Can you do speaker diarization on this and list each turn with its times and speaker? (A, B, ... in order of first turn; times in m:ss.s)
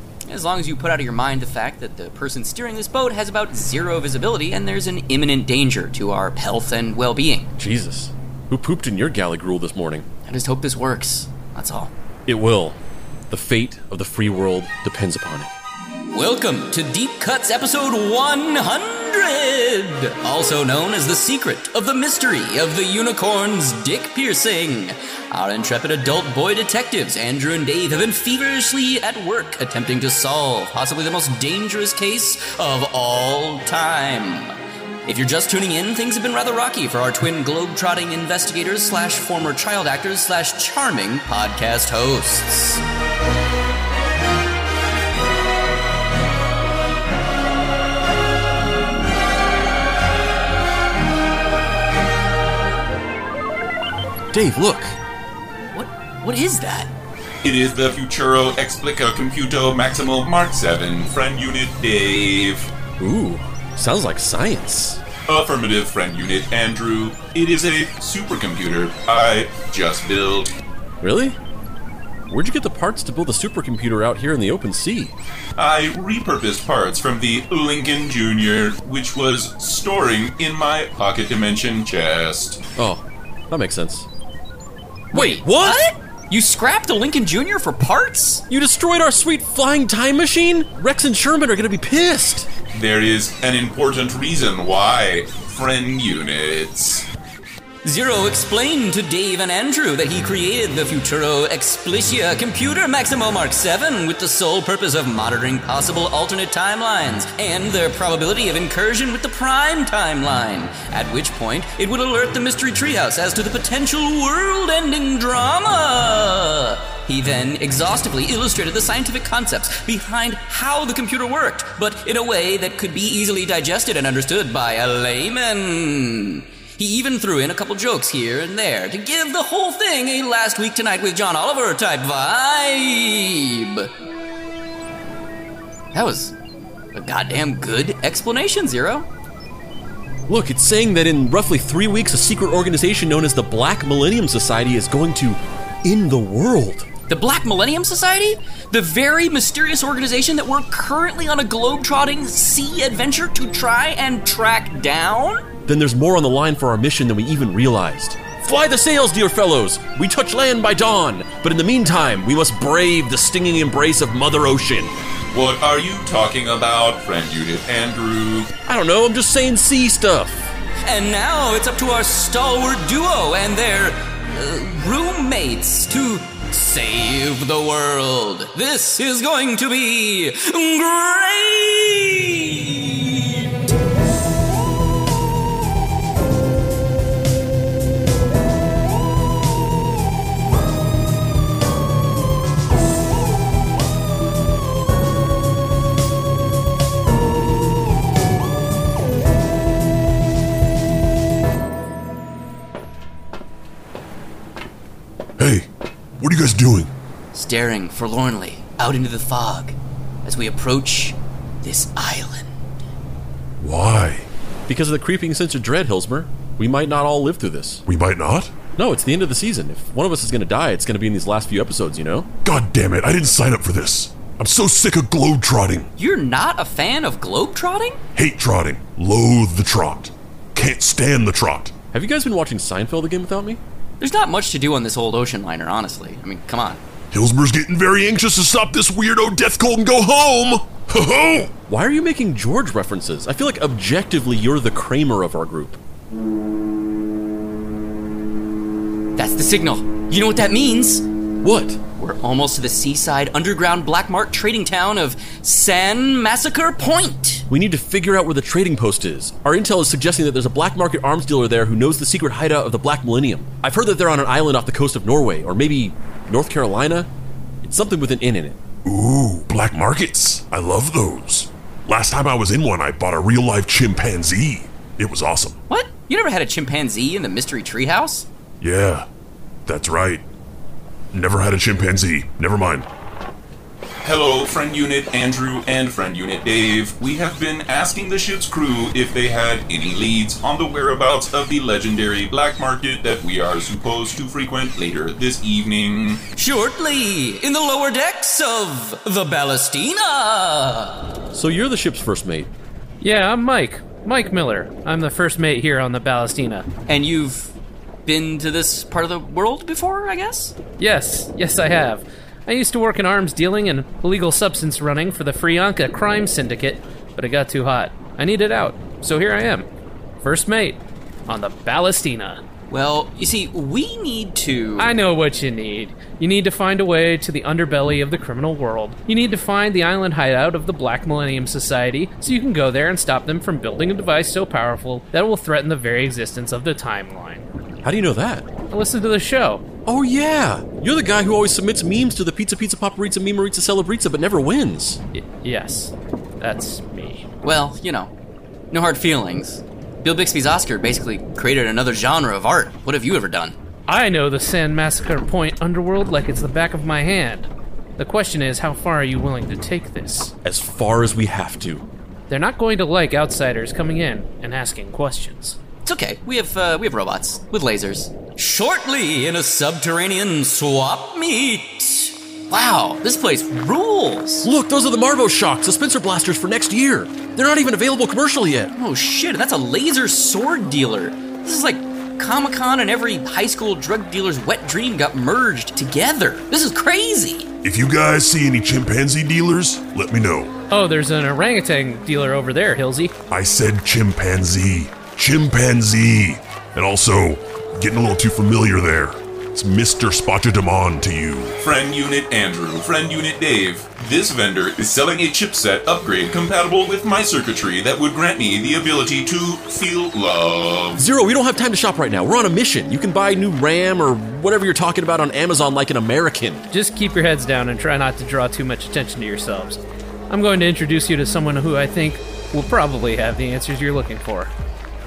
0:00.3-0:07.5 A
0:07.6-0:10.1 B
0:10.2-0:11.9 A
0:12.3-0:15.5 B
0:16.1-0:34.5 A
0:35.1-0:42.8 A
0:54.3-0:55.0 B
0:55.7-0:56.9 A
0:57.4-1:02.7 C
1:03.0-1:05.0 B
1:05.3-1:10.5 C
1:11.0-1:11.4 B
1:12.3-1:15.2 B
1:15.6-1:22.6 C
1:22.8-1:24.1 B
1:25.1-1:28.4 A
1:25.1-1:25.8 B
1:28.5-1:32.5 B
1:32.7-1:37.1 C
1:37.8-2:13.9 A
2:15.9-2:16.3 A
2:17.0-2:19.1 A
2:20.3-2:26.9 B
2:27.1-2:35.4 A
2:35.7-2:44.9 B
2:45.3-2:48.5 C
2:48.7-2:50.5 B
2:50.8-3:03.5 A
3:25.4-3:25.7 D
3:26.2-3:26.9 D
3:27.3-3:32.5 A
3:33.6-3:34.3 D
3:34.7-3:37.8 B
3:37.9-3:38.6 D
3:38.8-3:42.3 B
3:42.4-3:45.9 D
3:46.0-3:48.0 A
3:48.2-3:51.8 D
3:51.9-3:53.6 B
3:54.0-3:56.8 A
3:57.1-4:01.6 D
4:01.7-4:05.8 B
4:09.2-4:11.0 A
4:11.4-4:11.8 B
4:12.0-4:17.4 A
4:17.5-4:27.1 B
4:27.6-4:28.6 B
4:28.8-4:35.6 D
4:35.7-4:38.3 A
4:38.6-4:39.1 D
4:39.7-4:40.2 D
4:41.1-4:42.9 D
4:44.0-4:56.2 C
4:56.4-5:01.1 A
5:01.3-5:02.5 B
5:03.0-5:06.7 E
5:06.9-5:07.6 A
5:08.1-5:10.6 A
5:10.8-5:19.7 E
5:20.2-5:22.4 E
5:22.7-5:24.9 A
5:24.8-5:37.5 E
5:37.8-5:38.5 B
5:38.7-5:39.7 E
5:39.8-5:45.0 B
5:45.1-5:47.3 E
5:47.4-5:48.1 A
5:48.7-5:53.6 A
5:53.9-6:00.3 E
6:00.4-6:01.9 B
6:02.3-6:05.6 E
6:05.8-6:14.5 A
6:14.4-6:18.7 B
6:18.7-6:27.5 A
6:27.6-6:30.5 D
6:30.7-6:33.2 E
6:33.3-6:41.6 D
6:41.6-6:51.0 C
6:51.0-6:56.7 B
6:56.7-7:04.5 E